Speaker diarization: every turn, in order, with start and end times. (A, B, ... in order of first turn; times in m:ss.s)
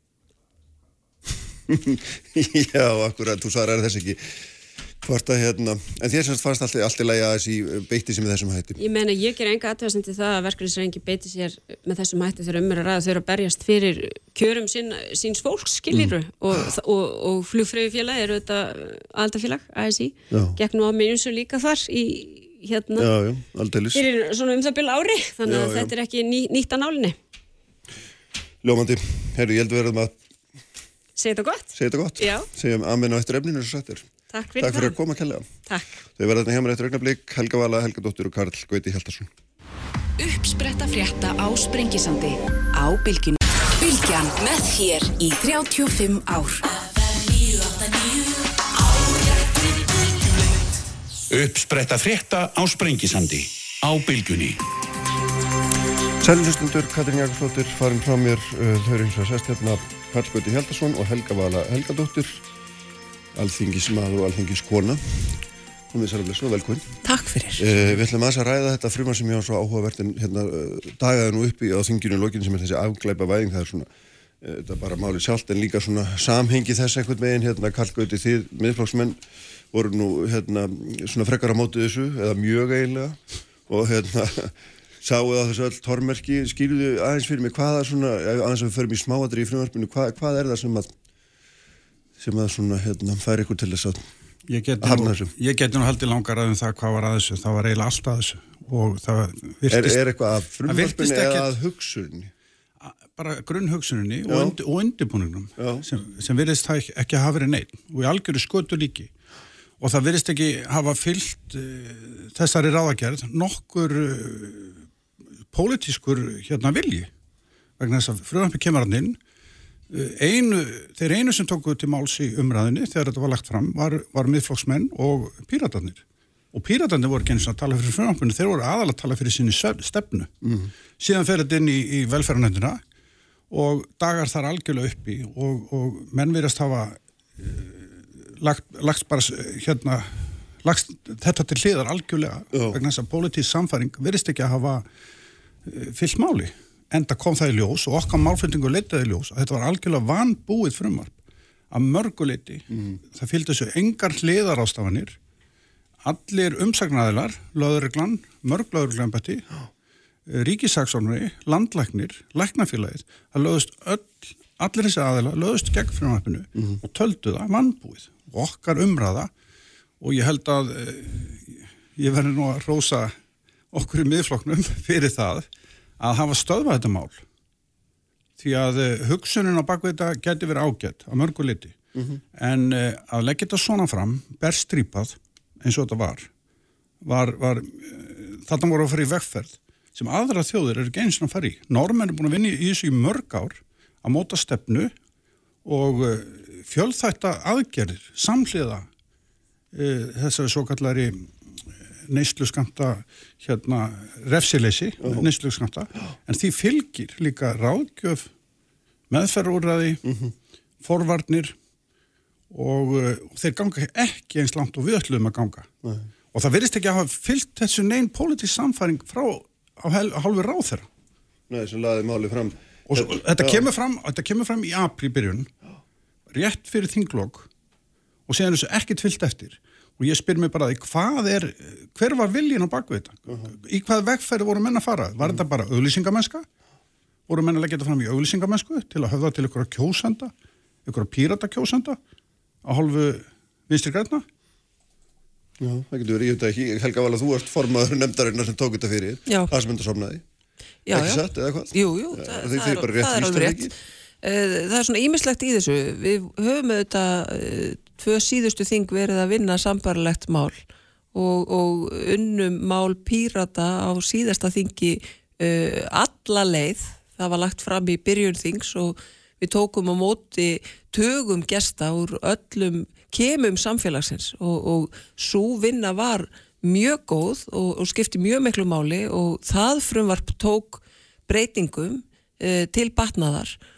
0:01.7-0:04.4 A
0:05.0-0:08.8 A
0:08.8-0:23.1 B
0:15.9-0:16.2 A
0:20.3-0:20.6 A
0:23.0-0:24.0 A
0:23.9-0:27.2 B
0:25.4-0:25.9 A
0:28.6-0:30.2 A
0:31.2-0:32.5 B
0:31.7-0:34.1 A
0:34.3-0:35.0 B
0:34.6-0:35.5 A
0:36.2-0:39.3 A
0:40.2-0:48.2 C
0:48.9-0:49.5 C
0:51.3-0:54.6 D
0:56.2-1:02.4 A
1:03.4-1:06.9 A
1:07.0-1:07.7 E
1:07.6-1:13.9 A
1:14.4-1:19.2 A
1:19.7-1:30.9 A
1:32.2-1:34.0 A
1:34.5-1:40.0 F
1:34.8-1:35.3 A
1:39.7-1:42.3 A
1:40.7-1:41.6 F
1:42.8-1:49.1 F
1:44.3-1:44.6 A
1:45.6-1:45.9 A
1:49.8-1:54.8 F
1:55.5-1:57.1 F
1:57.8-1:59.2 F
1:59.9-2:10.3 F
2:10.4-2:10.7 A
2:11.0-2:12.8 F
2:13.5-2:24.8 F
2:22.5-2:22.8 A
2:25.6-2:31.2 F
2:31.7-2:35.2 F
2:32.7-2:33.0 A
2:36.0-2:39.5 F
2:40.3-2:49.3 F
2:50.0-2:53.2 F
2:53.7-2:55.5 F
2:56.0-2:57.2 F
2:58.4-3:01.8 F
3:02.0-3:02.2 A
3:02.4-3:06.3 F
3:07.0-3:14.9 F
3:15.6-3:18.9 F
3:19.7-3:21.3 F
3:22.1-3:28.3 F
3:25.0-3:25.3 A
3:29.1-3:30.0 F
3:30.0-3:30.3 A
3:30.8-3:31.6 F
3:32.5-3:35.7 F
3:36.3-3:40.9 F
3:41.5-3:43.7 A
3:42.9-3:45.5 F
3:46.3-3:47.5 F
3:48.3-3:56.5 F
3:57.3-4:00.3 F
4:00.8-4:02.0 F
4:02.6-4:04.3 F
4:05.6-4:10.2 A
4:09.3-4:09.5 E
4:10.9-4:20.6 E
4:10.9-4:13.7 A
4:21.1-4:43.6 E